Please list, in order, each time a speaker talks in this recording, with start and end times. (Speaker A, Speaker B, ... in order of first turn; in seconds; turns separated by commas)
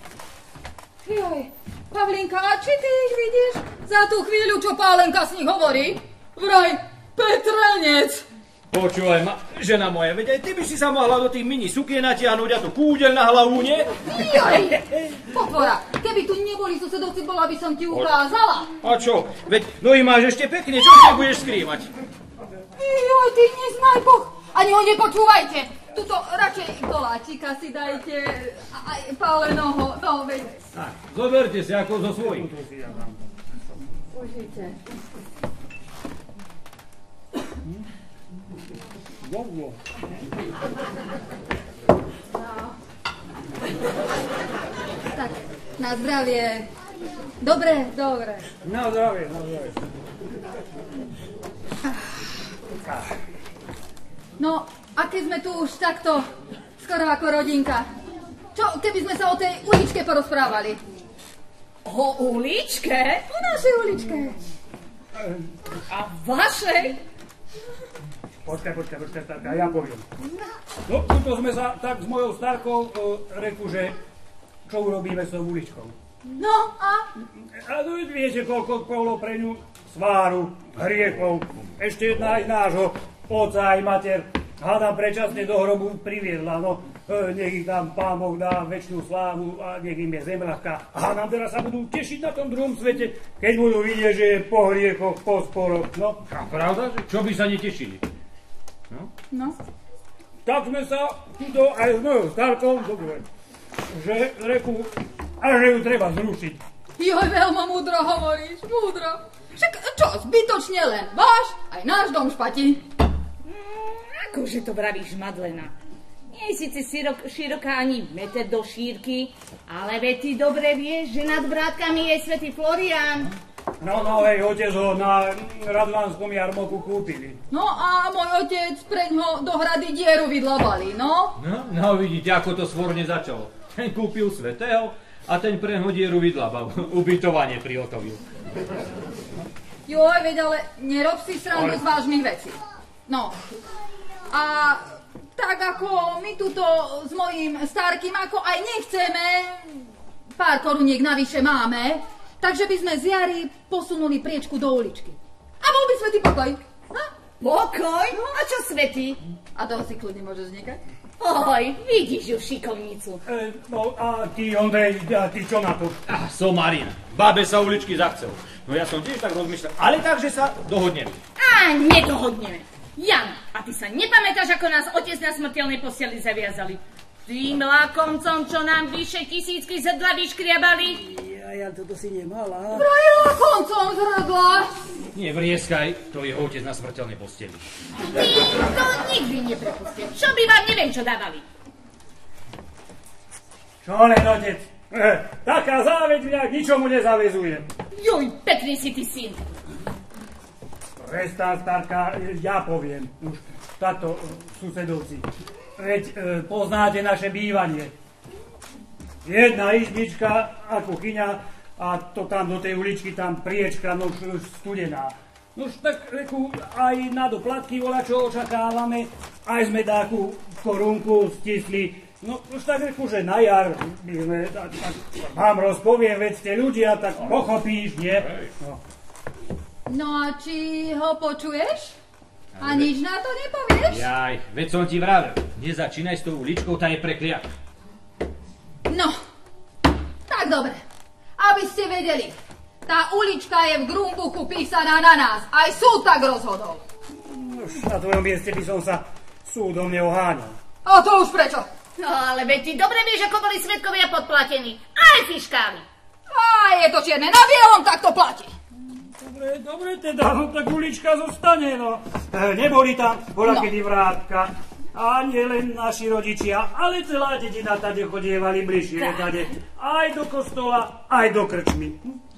Speaker A: 1.0-8.3, Speaker B: 8.7-14.0, Speaker A: 14.0-18.7, Speaker B: 18.8-21.9, Speaker A: 22.8-30.7, Speaker B: 30.7-32.5, Speaker C: 32.2-33.3, Speaker A: 34.1-34.8, Speaker C: 39.2-39.9, Speaker A: 42.3-42.7, Speaker A: 45.1-46.7, Speaker A: 47.4-48.5, Speaker C: 48.6-49.8, Speaker A: 54.4-56.3, Speaker A: 56.8-57.9, Speaker A: 58.5-60.8, Speaker D: 61.9-63.2, Speaker A: 63.3-64.4, Speaker C: 65.2-65.5, Speaker D: 65.9-67.0, Speaker C: 68.5-70.1, Speaker C: 70.9-74.0, Speaker C: 74.7-76.0, Speaker A: 76.4-76.9, Speaker C: 77.5-96.2, Speaker B: 96.3-98.1, Speaker A: 99.3-99.6, Speaker C: 100.5-103.3, Speaker C: 103.9-106.6, Speaker A: 107.0-112.8, Speaker D: 113.5-115.7, Speaker D: 116.3-123.3, Speaker C: 123.8-127.4, Speaker A: 127.5-131.4, Speaker B: 131.4-138.2, Speaker A: 139.9-143.4, Speaker A: 144.3-156.6, Speaker D: 157.0-159.2, Speaker A: 159.6-160.8, Speaker D: 161.2-163.2, Speaker C: 163.3-166.0, Speaker B: 166.1-171.2, Speaker D: 171.4-181.0, Speaker C: 181.0-182.9, Speaker A: 182.7-184.7, Speaker B: 185.1-187.7, Speaker D: 188.0-191.4, Speaker C: 193.8-197.7, Speaker D: 197.9-199.4, Speaker C: 201.0-207.9, Speaker C: 209.2-228.8, Speaker B: 228.2-228.5, Speaker A: 229.9-231.9, Speaker B: 232.6-232.9, Speaker A: 232.6-234.1, Speaker B: 233.9-237.5, Speaker A: 238.9-239.2, Speaker A: 240.3-240.8, Speaker A: 241.4-246.8, Speaker C: 247.2-250.6, Speaker A: 250.8-251.7, Speaker D: 252.0-255.8, Speaker A: 256.3-258.5, Speaker C: 259.0-272.1, Speaker A: 263.4-263.7